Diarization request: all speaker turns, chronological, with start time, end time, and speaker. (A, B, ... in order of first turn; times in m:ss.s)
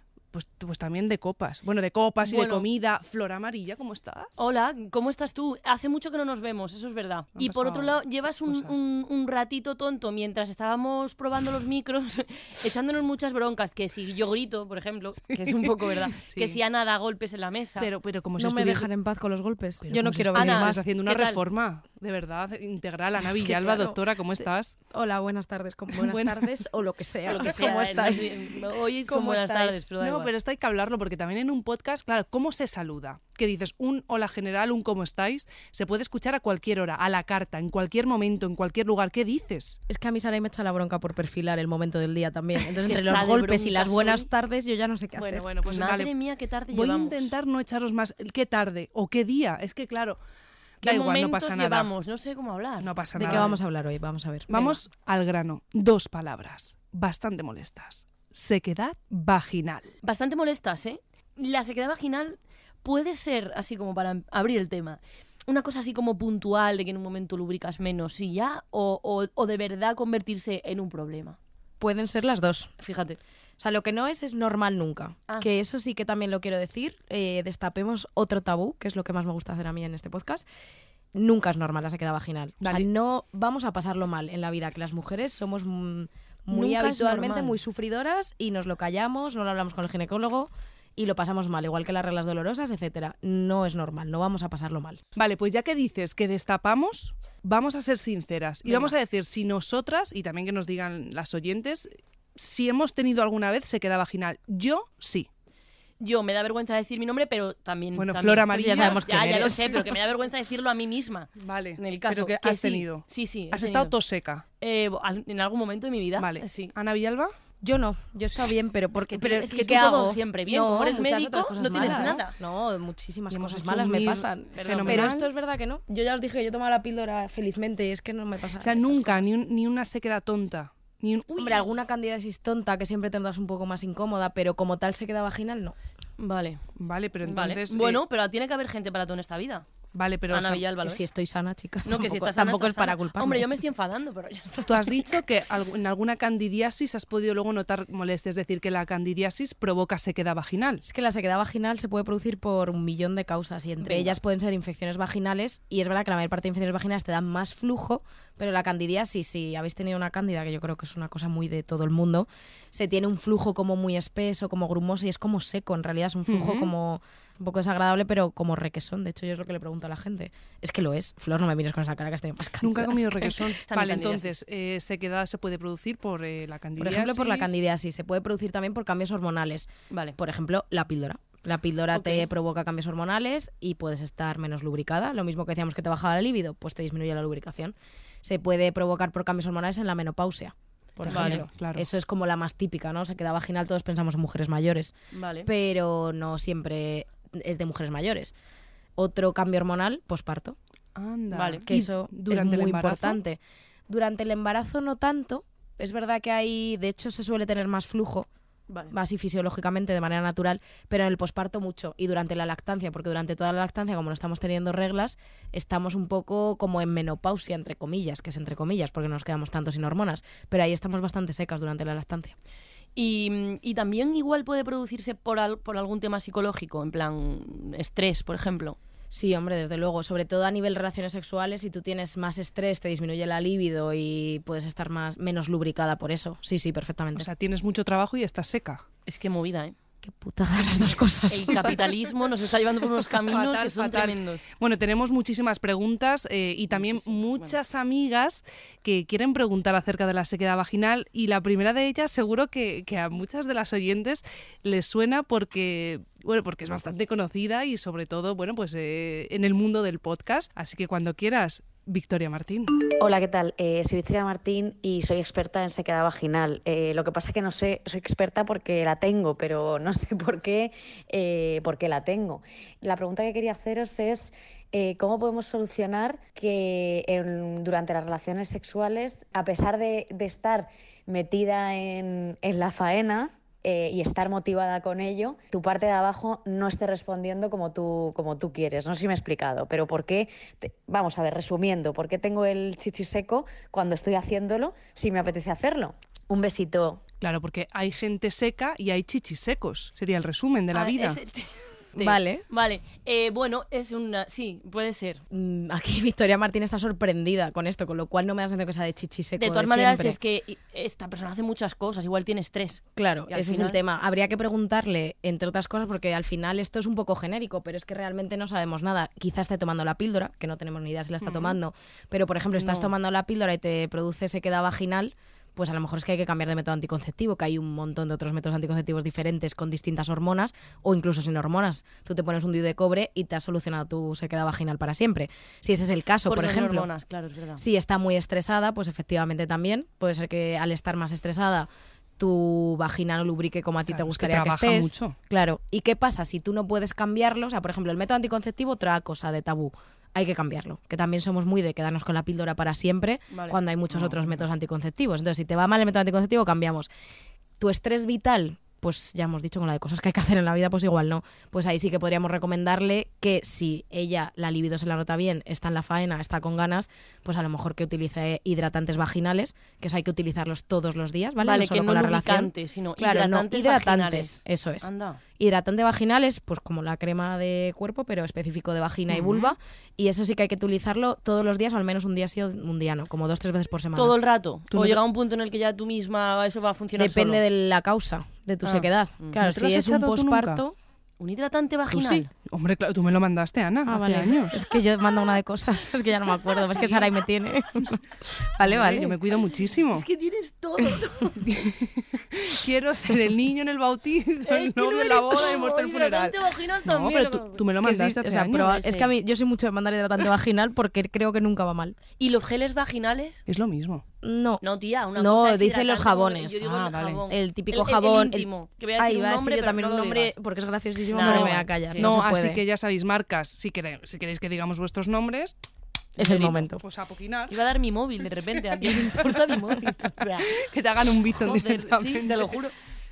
0:00.3-0:04.4 A
0:02.2-0:02.7 B
0:04.4-0:17.9 B
0:07.4-0:08.8 A
0:15.4-0:16.6 A
0:17.8-0:18.9 A
0:18.4-0:20.9 C
0:19.8-0:24.8 A
0:20.3-0:21.4 B
0:23.2-0:29.8 C
0:26.0-0:26.5 A
0:27.3-0:30.3 B
0:28.0-0:28.4 A
0:30.0-0:39.8 A
0:39.9-0:45.4 C
0:42.8-0:44.3 B
0:45.2-0:47.3 B
0:45.6-0:46.1 A
0:46.7-0:50.2 A
0:50.8-0:51.9 A
0:50.8-0:53.6 B
0:52.8-0:53.5 A
0:53.2-0:54.5 C
0:54.5-0:59.9 A
0:54.5-0:54.8 B
1:00.0-1:11.4 B
1:11.8-1:12.8 C
1:12.8-1:13.2 B
1:13.6-1:20.5 C
1:21.2-1:35.0 C
1:22.6-1:22.9 A
1:26.5-1:27.6 B
1:35.2-1:45.3 A
1:46.0-1:53.9 B
1:48.0-1:49.6 A
1:48.5-1:49.8 C
1:51.4-1:54.4 A
1:54.6-1:56.7 B
1:56.2-1:57.3 A
1:57.6-2:09.3 C
1:59.0-2:02.3 B
2:01.8-2:02.2 A
2:03.3-2:05.3 A
2:04.6-2:05.1 B
2:08.6-2:11.7 A
2:11.4-2:15.8 C
2:16.2-2:16.6 B
2:16.8-2:18.0 A
2:17.2-2:19.7 B
2:19.9-2:20.6 A
2:20.3-2:21.0 B
2:20.8-2:23.5 C
2:21.8-2:24.9 B
2:24.6-2:30.8 A
2:30.8-2:53.5 C
2:33.8-2:34.1 B
2:46.3-2:46.7 A
2:52.6-2:57.5 A
2:53.7-2:54.3 B
2:56.8-3:14.9 C
2:59.9-3:00.2 B
3:01.9-3:02.3 B
3:11.0-3:11.9 A
3:11.1-3:11.5 B
3:15.1-3:15.5 B
3:15.5-3:18.3 C
3:19.0-3:20.6 C
3:21.0-3:23.2 A
3:21.3-3:21.6 B
3:21.7-3:28.3 C
3:28.9-3:42.4 C
3:43.0-3:48.8 B
3:49.1-3:57.3 C
3:57.2-3:58.8 A
3:59.1-3:59.7 B
4:00.0-4:01.8 C
4:01.3-4:04.5 B
4:03.3-4:22.8 A
4:06.7-4:07.6 B
4:23.0-4:57.0 D
4:57.2-5:01.2 A
5:00.7-5:05.2 B
5:02.0-5:02.4 C
5:05.3-5:10.2 C
5:09.4-5:13.8 B
5:13.0-5:36.9 C
5:22.6-5:22.9 B
5:36.3-5:37.6 B
5:37.6-5:56.9 C
5:43.9-5:45.2 A
5:53.3-5:53.6 B
5:53.9-5:54.3 A
5:57.6-6:24.2 C
6:11.4-6:15.2 B
6:19.2-6:19.4 A
6:24.0-6:27.4 B
6:24.7-6:25.0 A
6:27.0-6:30.8 C
6:28.6-6:29.4 B
6:29.4-6:30.6 A
6:31.2-6:32.3 B
6:31.9-6:32.3 C
6:32.5-6:34.6 A
6:33.9-6:39.2 C
6:36.6-6:37.1 B
6:38.6-6:40.0 A
6:39.9-6:41.5 B
6:41.4-6:48.8 A
6:44.5-6:47.7 B
6:47.8-6:52.0 C
6:48.5-6:49.1 B
6:52.2-6:53.4 B
6:53.5-6:54.0 A
6:54.2-6:54.6 C
6:54.6-7:00.3 B
6:55.2-7:02.6 C
6:56.8-6:57.2 A
7:01.1-7:02.1 B
7:01.2-7:05.6 A
7:06.2-7:06.6 B
7:06.2-7:06.8 C
7:06.8-7:07.6 A
7:07.5-7:10.5 B
7:08.4-7:09.6 A
7:10.4-7:12.5 A
7:11.4-7:12.7 B